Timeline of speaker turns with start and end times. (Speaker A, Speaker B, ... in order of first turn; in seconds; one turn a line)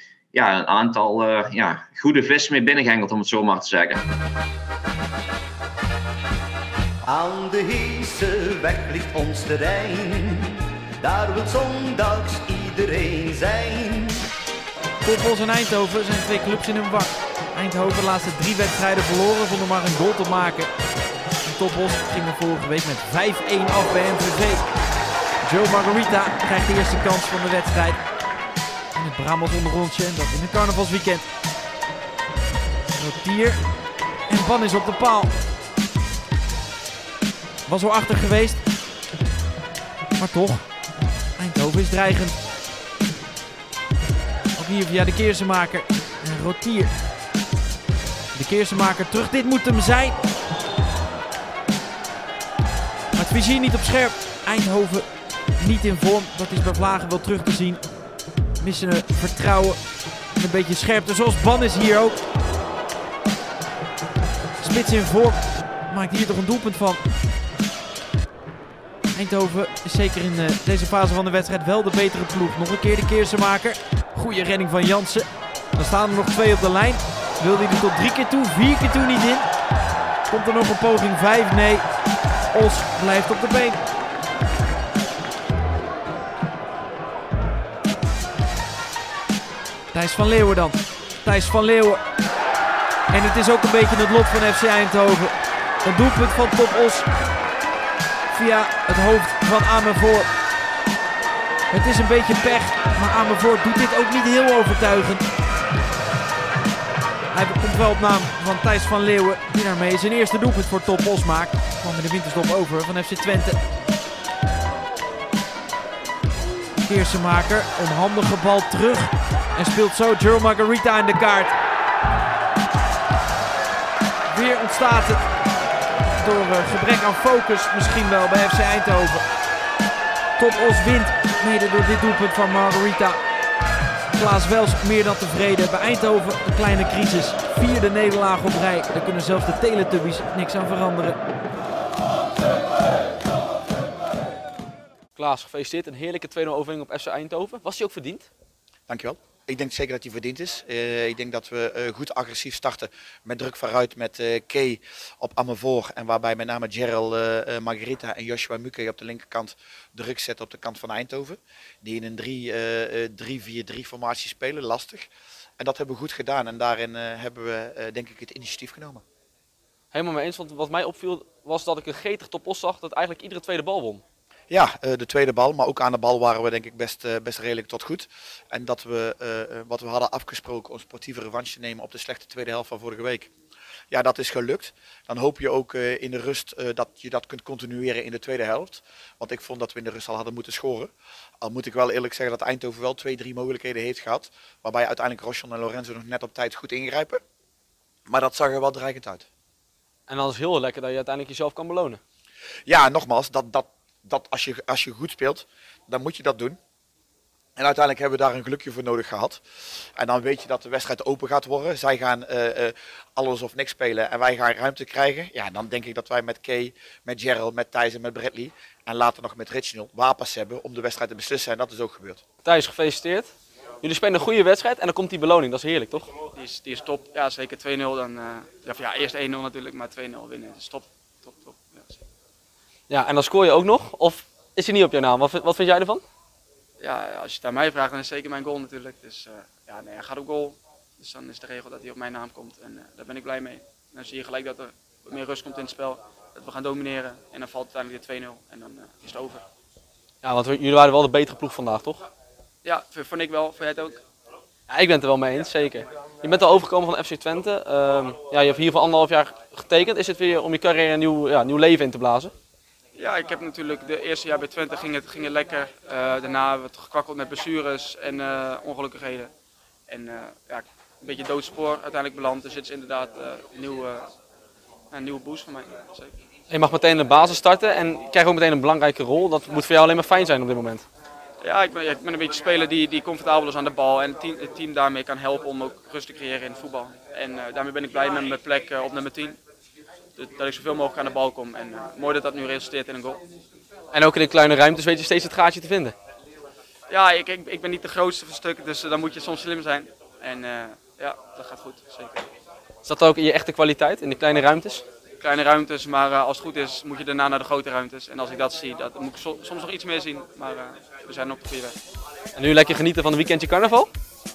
Speaker A: 0.3-4.0
Speaker B: 7.1-14.2
Speaker C: 15.0-20.7
Speaker C: 21.4-24.7
Speaker C: 25.4-28.1
Speaker C: 28.9-31.3
Speaker C: 32.9-33.7
Speaker C: 34.3-35.4
Speaker C: 37.7-38.6
Speaker C: 40.2-40.7
Speaker C: 41.4-42.4
Speaker C: 44.6-47.0
Speaker C: 48.3-50.2
Speaker C: 53.1-57.9
Speaker C: 58.6-62.2
Speaker C: 64.6-67.1
Speaker C: 69.1-79.5
Speaker C: 80.3-81.9
Speaker C: 82.5-83.8
Speaker C: 89.9-92.0
Speaker C: 93.1-97.1
Speaker C: 98.3-100.3
Speaker C: 101.7-105.3
Speaker C: 107.3-113.6
Speaker C: 116.8-121.5
Speaker C: 124.3-125.3
Speaker C: 126.1-129.3
Speaker C: 130.4-133.2
Speaker C: 134.1-141.2
Speaker D: 145.2-148.3
Speaker E: 148.9-165.1
Speaker E: 165.6-169.0
Speaker D: 169.9-174.0
Speaker E: 174.5-183.3
Speaker E: 183.9-197.2
Speaker E: 198.1-199.2
Speaker D: 200.1-202.0
Speaker E: 202.7-206.6
Speaker E: 207.6-209.4
Speaker E: 210.0-222.2
Speaker D: 222.4-226.1
Speaker F: 226.3-232.0
Speaker D: 232.9-236.0
Speaker F: 236.8-249.4
Speaker D: 250.2-252.0
Speaker F: 252.6-254.0
Speaker D: 254.7-262.3
Speaker F: 263.0-269.3
Speaker F: 269.9-274.1
Speaker F: 274.9-276.1
Speaker D: 276.5-280.9
Speaker F: 281.4-289.4
Speaker F: 290.2-293.2
Speaker D: 293.9-295.9
Speaker F: 296.9-302.3
Speaker D: 302.9-304.9
Speaker F: 305.2-311.8
Speaker D: 312.4-313.9